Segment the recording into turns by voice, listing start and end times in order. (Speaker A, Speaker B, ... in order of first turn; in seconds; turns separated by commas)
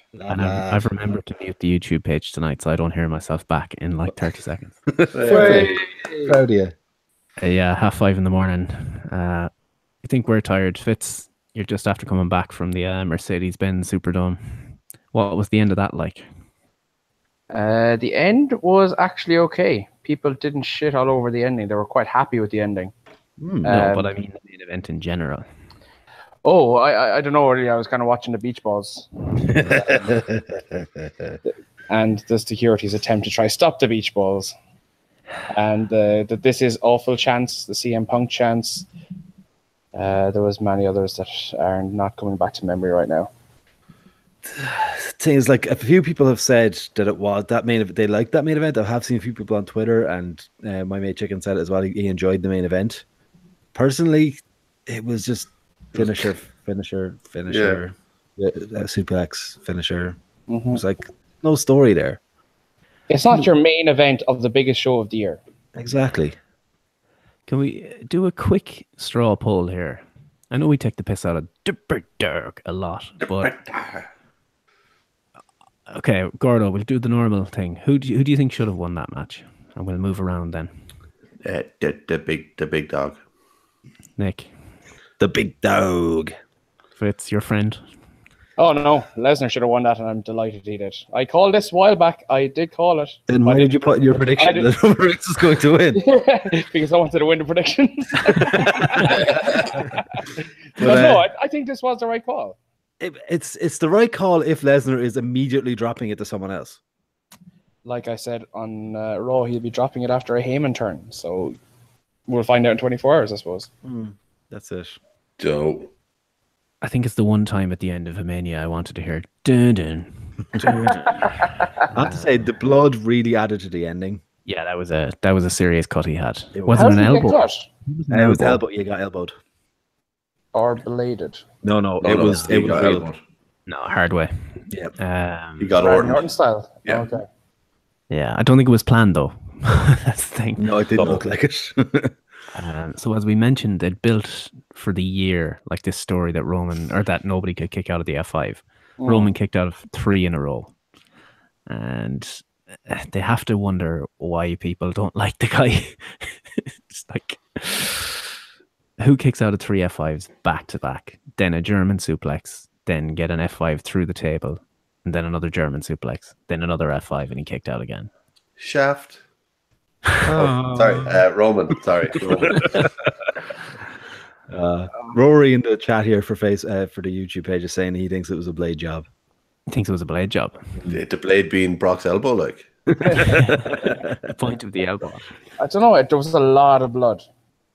Speaker A: 0.1-0.8, Speaker B: 0.3-4.8, Speaker A: 4.9-6.7, Speaker C: 5.1-5.8, Speaker D: 5.2-6.0, Speaker B: 7.4-9.5, Speaker B: 10.0-16.2, Speaker D: 17.5-22.9, Speaker A: 23.4-23.7, Speaker D: 23.6-24.1, Speaker B: 23.6-25.4, Speaker D: 26.4-30.1, Speaker A: 29.5-31.4, Speaker D: 31.4-34.5, Speaker D: 35.5-38.9, Speaker D: 39.9-43.3, Speaker A: 44.4-53.0, Speaker A: 53.7-60.2, Speaker C: 56.0-56.2, Speaker C: 57.5-57.8, Speaker D: 60.5-60.8, Speaker A: 60.7-62.2, Speaker D: 63.1-65.4, Speaker A: 65.7-66.3, Speaker B: 67.5-73.5, Speaker C: 73.5-74.0, Speaker B: 75.9-80.7, Speaker C: 81.4-83.2, Speaker B: 84.2-84.5, Speaker A: 85.2-86.3, Speaker B: 87.0-87.8, Speaker D: 88.6-94.7, Speaker A: 93.3-96.0, Speaker D: 96.0-100.2, Speaker A: 98.5-99.9, Speaker D: 100.8-102.6, Speaker A: 100.8-101.3, Speaker A: 103.0-106.8, Speaker D: 107.8-111.5, Speaker D: 112.3-113.7, Speaker A: 113.8-115.0, Speaker C: 115.4-115.9, Speaker B: 116.8-122.3, Speaker A: 120.5-121.0, Speaker D: 120.6-121.3, Speaker A: 121.9-124.2, Speaker B: 124.5-128.6, Speaker A: 126.5-127.3, Speaker D: 126.7-127.7, Speaker A: 128.1-129.3, Speaker D: 130.5-131.4, Speaker A: 131.6-133.1, Speaker C: 132.0-133.2, Speaker B: 133.7-135.8, Speaker C: 135.6-136.2, Speaker D: 135.8-137.2, Speaker B: 138.1-140.7, Speaker A: 140.6-142.2, Speaker B: 142.5-150.7, Speaker D: 149.0-149.3, Speaker B: 151.7-158.2, Speaker B: 159.0-168.1, Speaker C: 168.6-169.2, Speaker A: 170.2-171.2, Speaker C: 170.3-172.9, Speaker A: 172.5-172.9, Speaker A: 174.5-179.0, Speaker B: 179.7-180.7, Speaker C: 180.9-183.3, Speaker A: 182.9-184.2, Speaker B: 183.1-185.2, Speaker D: 185.6-187.2